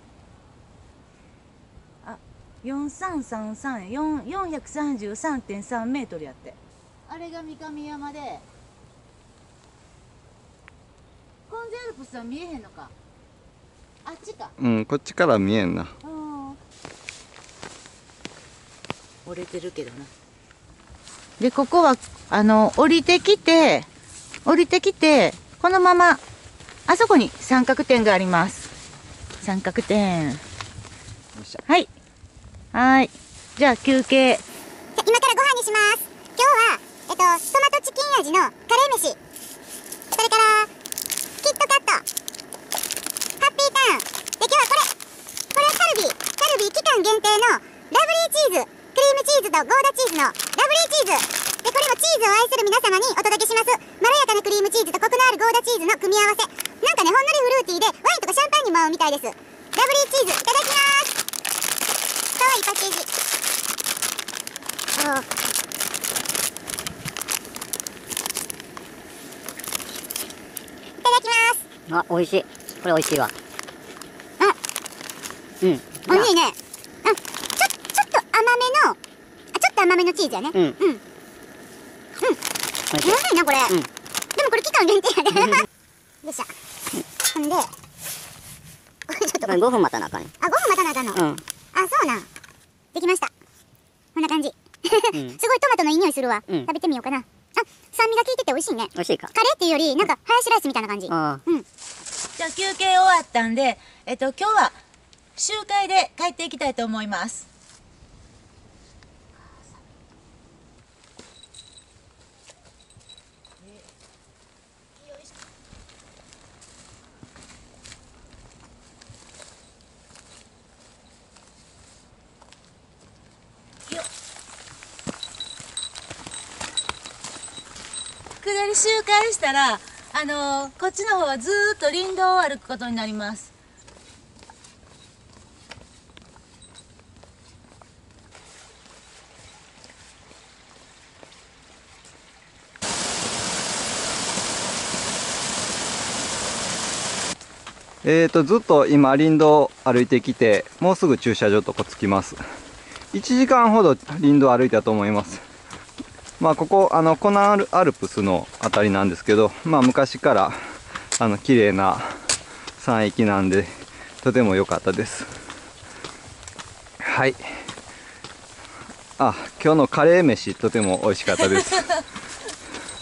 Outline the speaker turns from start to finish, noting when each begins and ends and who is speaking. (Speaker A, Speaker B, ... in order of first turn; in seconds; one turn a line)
Speaker A: 2.0-8.4
Speaker A: 11.5-12.9
Speaker A: 14.0-14.6
Speaker B: 14.6-15.9
Speaker A: 16.0-16.6
Speaker A: 19.2-20.1
Speaker A: 21.4-23.9
Speaker A: 24.4-26.2
Speaker A: 26.9-28.7
Speaker A: 29.4-30.4
Speaker B: 31.4-31.6
Speaker A: 32.7-34.4
Speaker C: 35.0-39.2
Speaker C: 40.1-40.7
Speaker C: 41.4-42.0
Speaker C: 43.4-44.9
Speaker C: 45.5-61.1
Speaker C: 62.4-63.1
Speaker C: 65.0-65.3
Speaker C: 71.0-71.7
Speaker D: 71.9-73.3
Speaker D: 75.6-76.3
Speaker C: 76.1-79.0
Speaker C: 79.5-81.0
Speaker D: 80.5-80.8
Speaker D: 82.9-83.9
Speaker C: 83.0-83.8
Speaker C: 84.4-85.7
Speaker C: 86.2-86.5
Speaker C: 87.3-87.7
Speaker C: 89.1-89.7
Speaker D: 89.4-90.3
Speaker C: 90.4-91.2
Speaker D: 91.1-91.4
Speaker C: 91.7-92.3
Speaker C: 93.0-93.3
Speaker C: 94.2-101.7
Speaker D: 95.1-95.4
Speaker D: 99.0-99.3
Speaker D: 101.1-101.4
Speaker A: 102.4-104.8
Speaker A: 105.4-107.5
Speaker A: 128.4-133.5
Speaker B: 148.0-152.4
Speaker B: 153.1-155.4
Speaker B: 156.4-160.6
Speaker B: 161.2-162.1
Speaker B: 162.8-163.7
Speaker B: 164.2-165.3
Speaker B: 167.0-167.4
Speaker B: 169.2-172.0